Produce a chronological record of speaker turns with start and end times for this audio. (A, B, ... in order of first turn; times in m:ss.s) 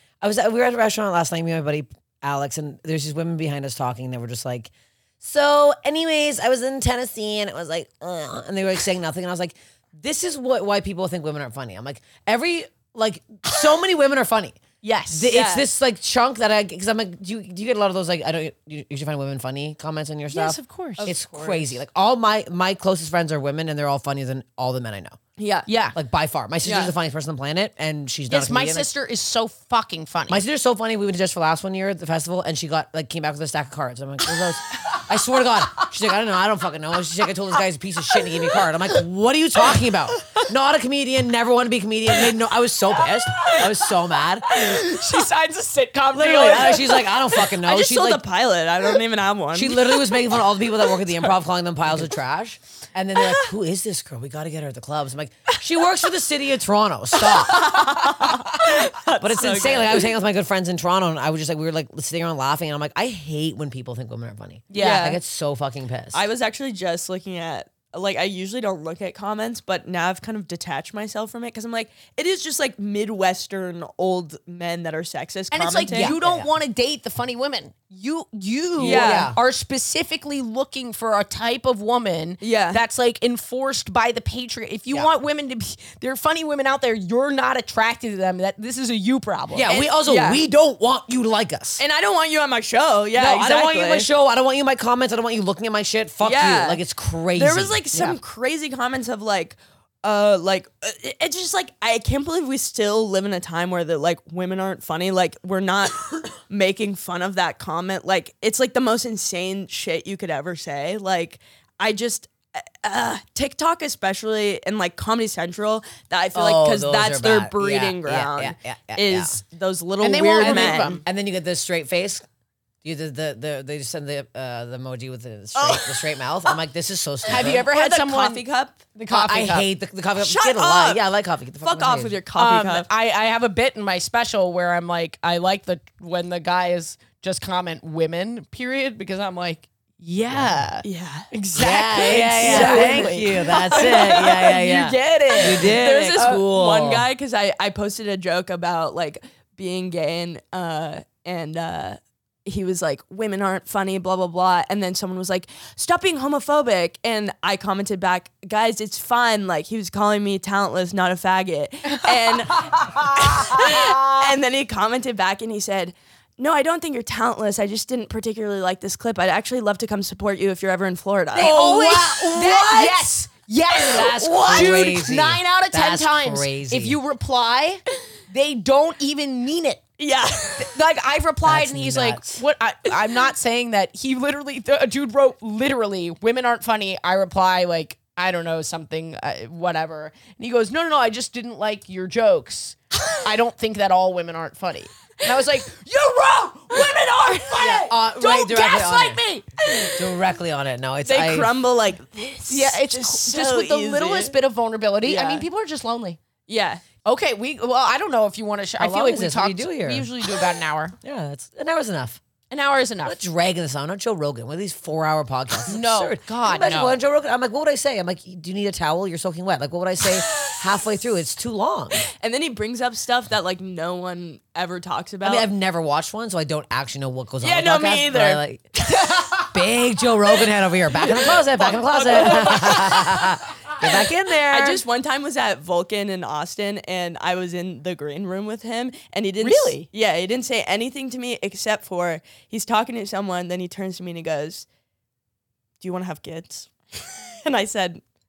0:00.2-0:14.6 A
0:14.8-0:15.3 B
0:15.1-0:25.2 A
0:15.3-0:15.6 C
0:20.3-0:21.1 B
0:21.0-0:21.7 C
0:25.4-0:25.7 C
0:25.7-0:26.0 B
0:25.9-0:28.9 A
0:26.6-0:26.9 C
0:28.3-0:30.4 B
0:30.3-0:44.8 A
0:43.4-0:43.7 B
0:44.5-0:47.0 B
0:46.1-0:48.2 A
0:46.3-0:50.1 C
0:49.5-0:58.0 A
0:57.3-1:00.1 C
0:59.2-1:06.2 A
1:04.7-1:05.1 B
1:04.8-1:05.2 C
1:06.1-1:16.1 C
1:15.5-1:29.7 B
1:15.9-1:16.5 A
1:18.8-1:19.4 A
1:18.8-1:19.3 C
1:22.4-1:22.8 C
1:29.5-1:31.8 A
1:29.7-1:30.4 C
1:31.8-1:34.1 C
1:33.2-1:38.2 A
1:36.2-1:36.8 C
1:37.3-2:01.0 C
1:56.3-1:59.4 A
2:00.0-2:01.0 B
2:00.4-2:02.2 A
2:02.8-2:07.6 A
2:05.5-2:06.5 C
2:07.3-2:09.7 B
2:07.3-2:08.8 C
2:09.1-2:12.1 A
2:10.2-2:11.0 C
2:11.6-2:12.9 C
2:12.4-2:26.4 B
2:20.3-2:20.6 A
2:20.8-2:21.3 C
2:21.5-2:27.1 A
2:22.3-2:24.5 C
2:25.3-2:51.5 C
2:42.7-2:44.2 B
2:51.3-2:53.1 A
2:51.4-2:59.8 B
2:53.7-2:57.0 A
2:53.9-2:54.8 C
3:00.0-3:00.7 C
3:00.6-3:19.9 B
3:01.4-3:02.4 A
3:17.6-3:19.2 A
3:19.9-3:21.5 A
3:21.0-3:24.4 C
3:22.5-3:26.2 B
3:25.0-3:25.5 C
3:26.5-3:26.8 C
3:27.0-3:31.0 B
3:28.8-3:30.1 A
3:31.0-3:32.2 A
3:32.5-3:33.2 B
3:33.0-3:42.0 A
3:35.7-3:37.0 B
3:42.2-3:45.5 C
3:45.2-3:48.7 A
3:47.4-3:48.4 C
3:49.0-3:49.4 C
3:49.4-3:54.8 A
3:51.2-3:53.2 C
3:52.1-3:52.6 B
3:54.5-4:04.7 C
3:59.4-3:59.9 B
4:05.8-4:08.0 C